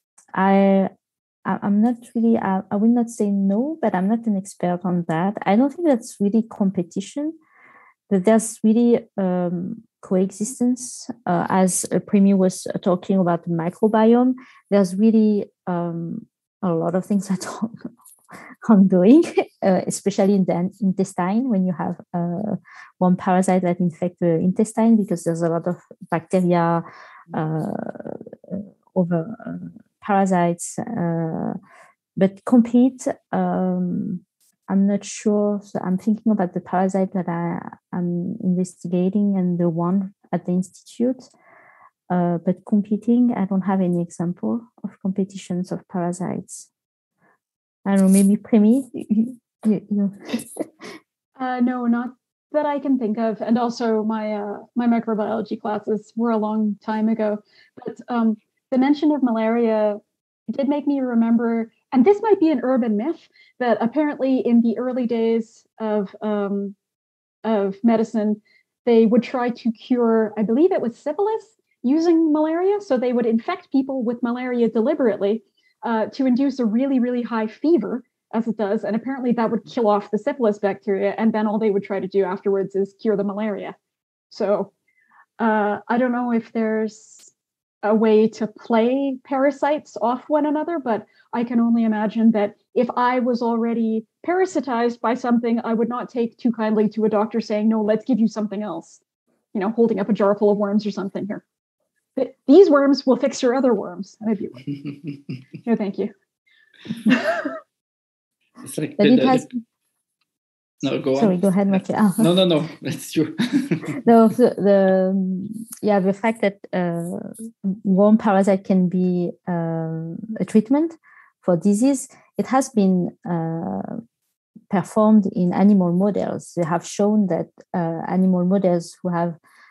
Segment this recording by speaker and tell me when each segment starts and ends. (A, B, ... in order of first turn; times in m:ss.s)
0:00.3-0:00.9 A
0:01.4-0:07.4 A
0:08.1-0:17.9 A
0:18.6-0:31.6 A
0:32.2-0:41.3 A
0:42.1-0:46.7 A
0:47.8-0:50.9 A
0:51.4-1:00.0 B
1:00.5-1:06.8 B
1:07.4-1:23.8 B
1:24.3-1:24.7 B
1:25.4-1:27.3 B
1:27.8-1:39.0 B
1:39.5-1:41.4 B
1:42.2-1:44.6 B
1:45.6-1:46.1 B
1:47.0-1:47.5 B
1:48.6-1:49.5 C
1:49.0-1:49.5 A
1:50.8-1:54.0 C
1:51.2-1:52.3 A
1:53.9-2:04.0 A
2:04.7-2:09.4 A